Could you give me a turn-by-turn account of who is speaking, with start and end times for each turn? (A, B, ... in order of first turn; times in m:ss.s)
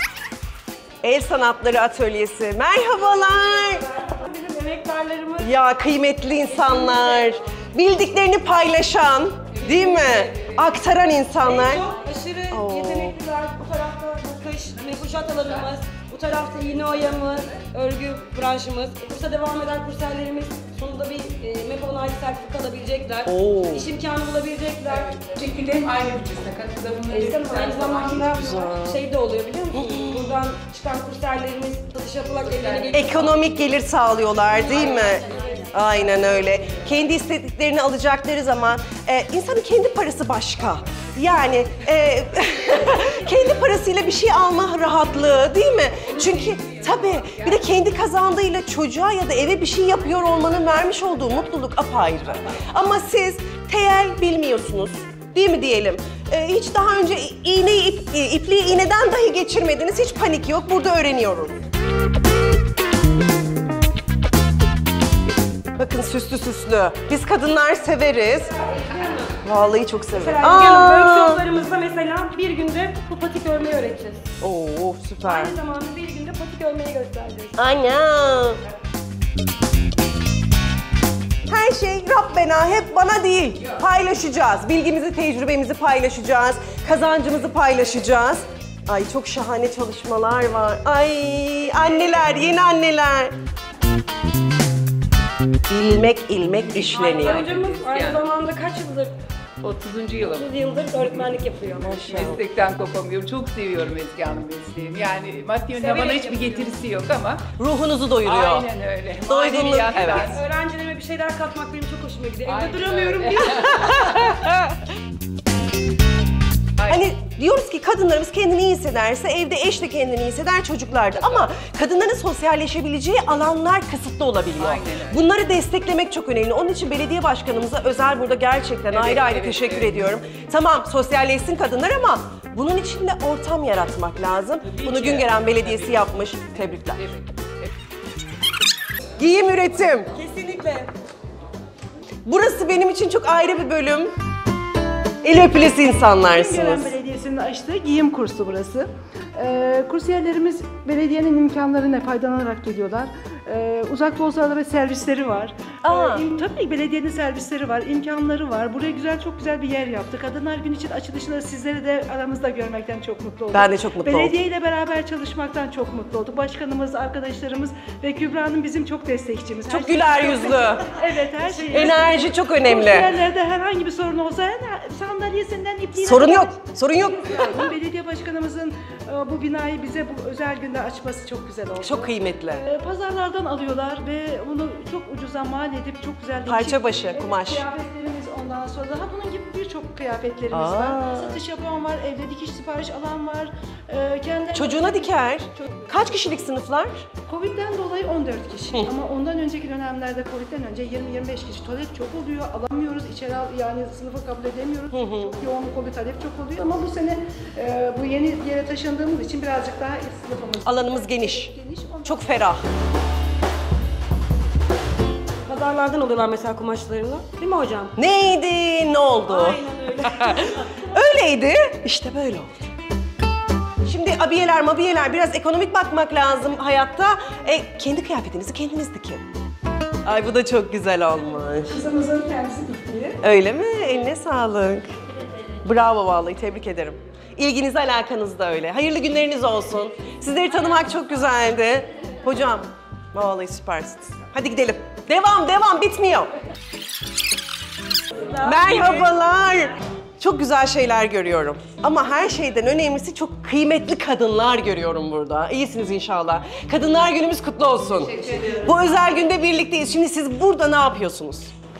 0:01.0-0:03.8 A
0:03.6-0:05.5 B
0:05.4-0:11.9 A
0:06.4-0:07.4 B
0:09.6-0:10.5 B
0:11.4-0:25.3 B
0:12.5-0:13.2 A
0:23.3-0:23.9 A
0:25.4-0:26.5 C
0:25.7-0:28.0 D
0:27.1-0:33.6 B
0:28.3-0:29.0 A
0:29.7-0:30.4 A
0:32.9-1:01.6 A
0:34.5-0:35.7 B
0:46.3-0:46.8 D
1:05.8-1:08.5 A
1:08.7-1:09.4 B
1:09.4-1:11.4 A
1:10.1-1:14.3 B
1:14.4-1:15.6 A
1:15.2-1:17.6 B
1:17.6-1:18.6 A
1:21.5-1:33.4 A
1:35.7-1:37.5 A
1:36.9-1:38.2 D
1:36.9-1:39.1 B
1:39.6-1:41.1 D
1:40.2-1:42.2 B
1:41.9-1:42.4 A
1:41.9-1:47.4 D
1:45.8-1:46.8 B
1:47.6-1:48.7 A
1:48.2-1:50.3 D
1:49.2-1:50.4 A
1:49.9-1:53.9 B
1:52.5-1:54.2 D
1:53.7-1:54.7 A
1:56.9-2:17.0 A
2:04.6-2:05.2 D
2:09.1-2:09.9 D
2:14.8-2:15.9 D
2:19.2-2:20.1 A
2:20.1-2:20.9 B
2:22.3-2:24.1 A
2:25.2-2:26.9 A
2:26.3-3:15.2 C
2:35.8-2:36.2 A
2:43.5-2:44.4 A
2:49.7-2:50.9 A
2:51.7-2:53.1 A
2:56.0-2:57.7 A
3:01.8-3:02.6 A
3:06.5-3:07.7 A
3:10.5-3:11.4 A
3:14.5-3:17.0 A
3:17.3-3:32.4 C
3:24.9-3:25.4 A
3:30.6-3:31.5 A
3:32.0-3:32.7 A
3:35.5-3:37.9 B
3:38.0-3:42.5 A
3:39.2-3:40.9 B
3:43.8-3:49.2 A
3:50.0-3:51.8 A
3:51.7-3:53.2 C
3:53.2-3:54.9 A
3:55.6-4:06.3 A
4:08.1-4:09.2 B
4:08.4-4:21.5 A
4:18.0-4:18.8 B